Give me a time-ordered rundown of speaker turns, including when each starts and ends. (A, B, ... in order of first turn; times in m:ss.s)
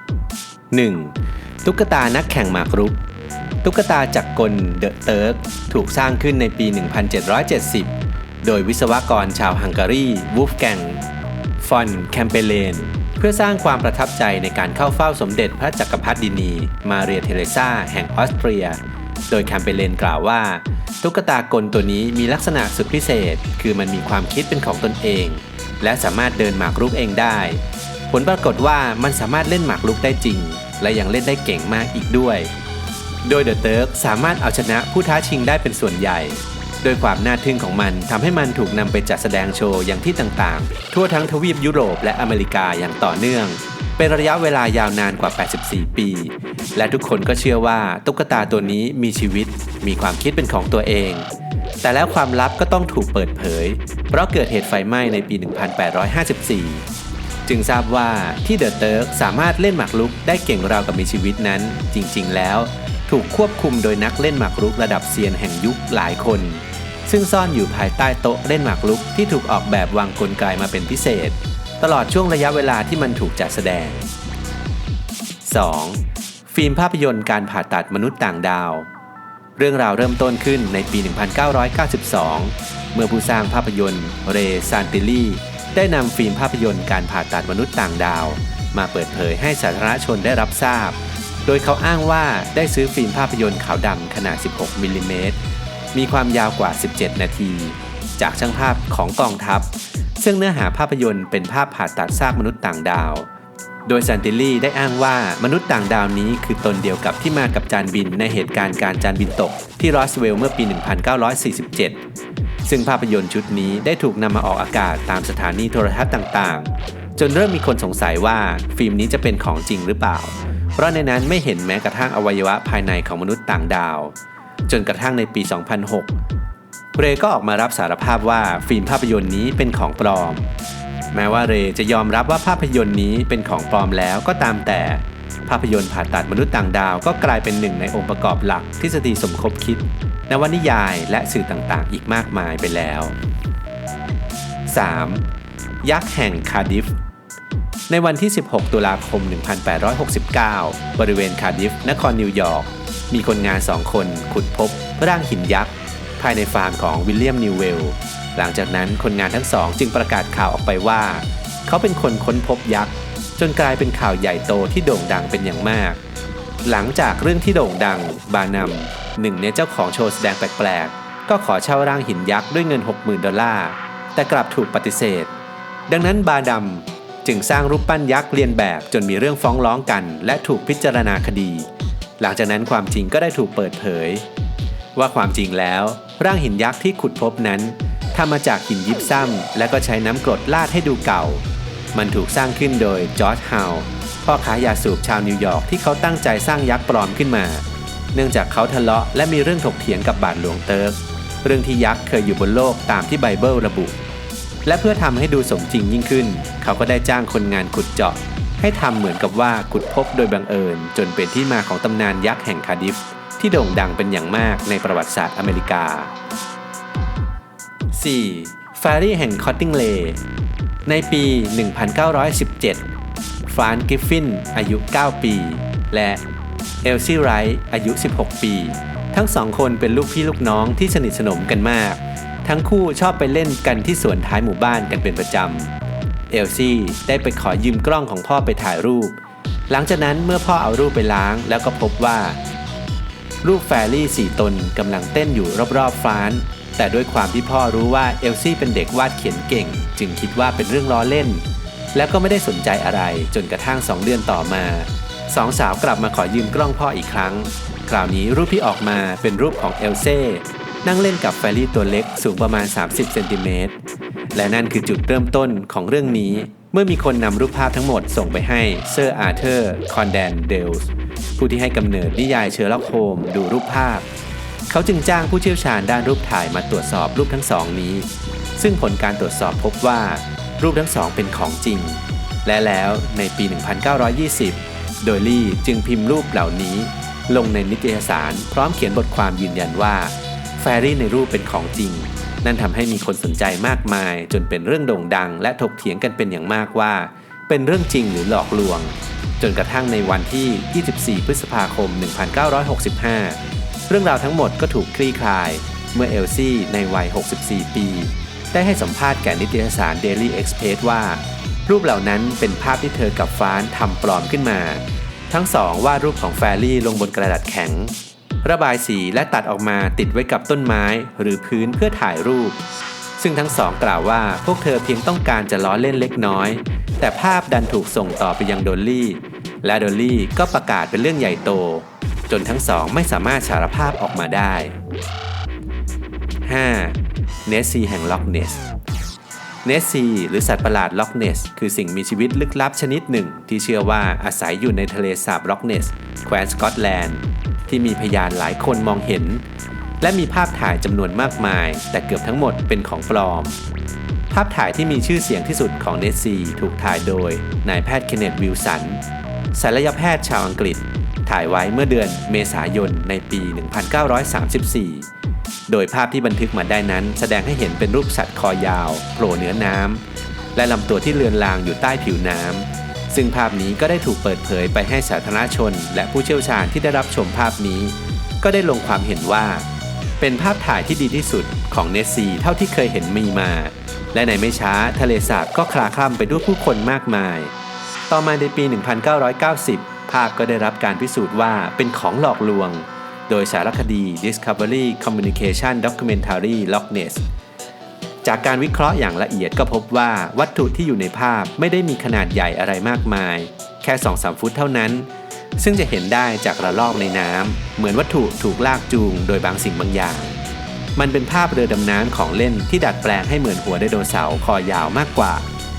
0:00.7-0:03.0 A
0:03.6-0:11.0 A
0:11.6-0:32.5 A
0:33.2-0:51.3 A
0:51.8-0:56.9 A
0:57.5-1:14.1 A
1:15.4-1:18.9 A
1:19.6-1:35.4 A
1:35.9-1:43.3 A
1:43.9-1:52.0 A
1:52.7-2:04.1 A
2:04.7-2:06.2 A
2:06.9-2:10.5 A
2:11.1-2:23.2 A
2:24.7-2:25.2 A
2:25.8-2:27.0 A
2:27.9-2:46.0 A
2:46.6-2:55.3 A
2:55.9-3:01.7 A
3:02.2-3:04.2 A
3:05.0-3:24.0 A
3:24.6-3:36.1 A
3:37.9-3:40.2 A
3:40.9-3:42.9 A
3:43.5-3:46.2 A
3:46.8-3:55.7 A
3:56.3-3:59.2 A
3:59.7-4:02.4 A
4:03.4-4:11.4 A
4:11.9-4:23.8 A
4:24.3-4:34.1 A
4:34.7-5:22.6 A
5:23.2-5:34.8 A
5:36.4-5:38.6 A
5:39.6-5:49.4 A
5:50.0-5:53.6 A
5:54.3-5:59.0 A
5:59.5-6:05.1 A
6:05.7-6:10.0 A
6:10.6-6:19.7 A
6:20.2-6:27.5 A
6:28.1-6:37.2 A
6:38.2-6:50.4 A
6:51.0-6:55.5 A